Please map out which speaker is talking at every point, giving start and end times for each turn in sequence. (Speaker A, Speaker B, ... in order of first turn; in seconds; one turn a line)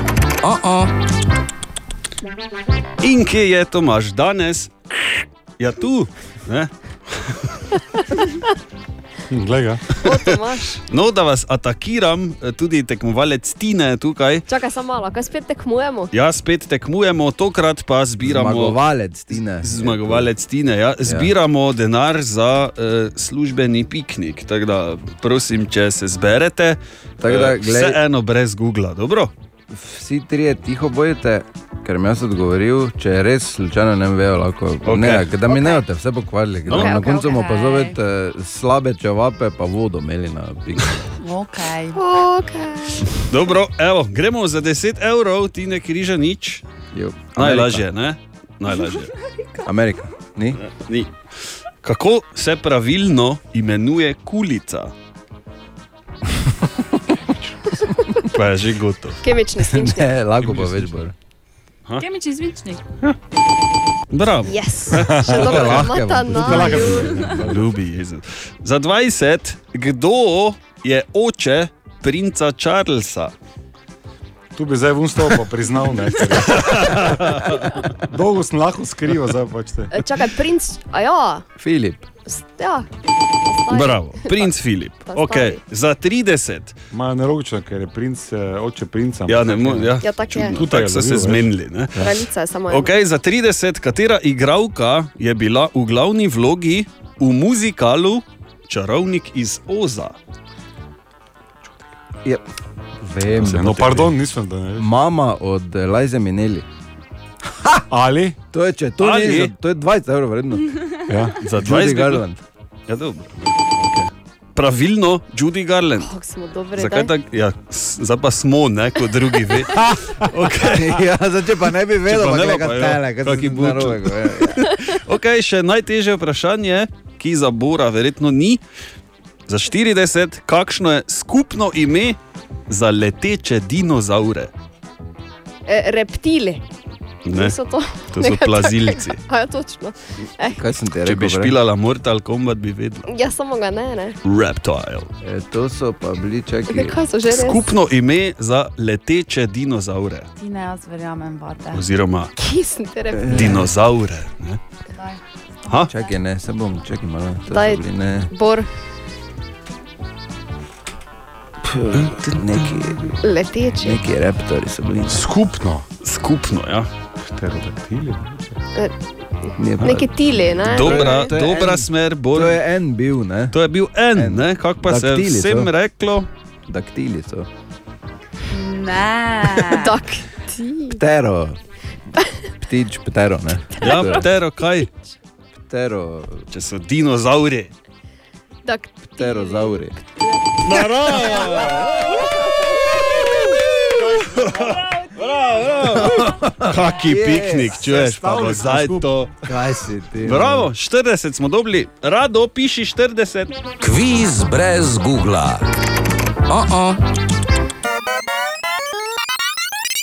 Speaker A: 0.4-0.9
Speaker B: 3.0-7.7
Speaker C: 9.3-9.8
Speaker D: 10.0-10.8
Speaker B: 10.1-10.3
Speaker B: 10.9-14.5
Speaker D: 14.5-16.1
Speaker B: 16.1-18.8
Speaker E: 18.2-20.3
Speaker B: 19.3-29.3
Speaker E: 21.0-21.3
Speaker E: 27.2-28.0
Speaker E: 29.7-41.0
Speaker B: 34.9-35.3
Speaker D: 35.5-35.8
Speaker B: 36.7-37.0
Speaker D: 36.7-37.3
Speaker F: 37.0-38.0
Speaker F: 41.2-42.0
Speaker D: 42.0-43.1
Speaker B: 43.3-46.6
Speaker E: 46.9-47.9
Speaker B: 47.4-49.1
Speaker E: 49.6-50.6
Speaker B: 50.5-51.1
Speaker B: 51.8-54.9
Speaker B: 58.3-59.2
Speaker D: 59.2-60.2
Speaker E: 59.7-61.1
Speaker B: 60.4-60.9
Speaker F: 62.0-62.8
Speaker B: 64.1-65.9
Speaker D: 64.5-67.2
Speaker E: 65.2-67.3
Speaker C: 66.3-67.7
Speaker B: 66.5-73.3
Speaker C: 74.5-77.4
Speaker B: 76.2-77.8
Speaker C: 78.0-79.9
Speaker D: 79.9-81.5
Speaker E: 81.6-82.1
Speaker D: 82.3-82.9
Speaker D: 83.4-84.5
Speaker B: 83.7-86.8
Speaker D: 85.1-85.6
Speaker C: 86.9-92.2
Speaker B: 89.3-92.0
Speaker D: 90.0-90.7
Speaker D: 92.0-92.9
Speaker B: 92.7-100.2
Speaker E: 103.0-103.8
Speaker C: 103.4-104.9
Speaker B: 103.5-104.1
Speaker E: 104.8-106.7
Speaker E: 107.6-107.8
Speaker C: 107.9-108.4
Speaker E: 108.5-111.0
Speaker B: 109.0-109.5
Speaker C: 111.1-111.4
Speaker B: 111.4-112.2
Speaker E: 111.6-112.4
Speaker B: 112.9-116.1
Speaker D: 116.0-117.1
Speaker B: 116.8-121.0
Speaker E: 120.7-124.7
Speaker B: 122.0-128.6
Speaker B: 129.5-132.2
Speaker B: 132.7-134.5
Speaker D: 135.7-136.6
Speaker B: 137.3-137.6
Speaker D: 137.3-140.6
Speaker B: 138.1-139.2
Speaker E: 140.5-141.6
Speaker B: 141.1-143.1
Speaker D: 143.1-144.2
Speaker B: 144.2-145.1
Speaker E: 145.2-147.0
Speaker D: 146.7-147.6
Speaker B: 147.3-150.3
Speaker F: 150.4-151.8
Speaker B: 151.7-152.3
Speaker D: 152.4-153.7
Speaker E: 153.1-153.7
Speaker B: 153.3-154.6
Speaker B: 155.7-155.9
Speaker E: 155.8-158.3
Speaker D: 157.5-158.7
Speaker E: 161.8-163.1
Speaker D: 163.2-164.0
Speaker E: 163.8-165.3
Speaker C: 165.1-165.8
Speaker B: 166.0-166.9
Speaker C: 167.3-168.6
Speaker E: 169.6-170.1
Speaker D: 169.8-171.3
Speaker B: 170.7-172.6
Speaker E: 170.7-173.6
Speaker B: 173.5-176.3
Speaker E: 174.1-175.7
Speaker E: 176.7-177.5
Speaker F: 178.5-179.9
Speaker D: 179.8-181.0
Speaker E: 180.9-181.6
Speaker E: 182.6-184.3
Speaker B: 183.8-184.9
Speaker E: 185.7-186.5
Speaker B: 186.5-187.7
Speaker D: 188.7-190.6
Speaker E: 189.2-190.0
Speaker B: 190.6-192.3
Speaker D: 191.3-191.8
Speaker B: 194.0-199.4
Speaker E: 196.0-197.8
Speaker C: 197.9-199.0
Speaker E: 199.4-200.7
Speaker B: 200.2-203.6
Speaker A: 203.8-205.6
Speaker A: 206.5-207.0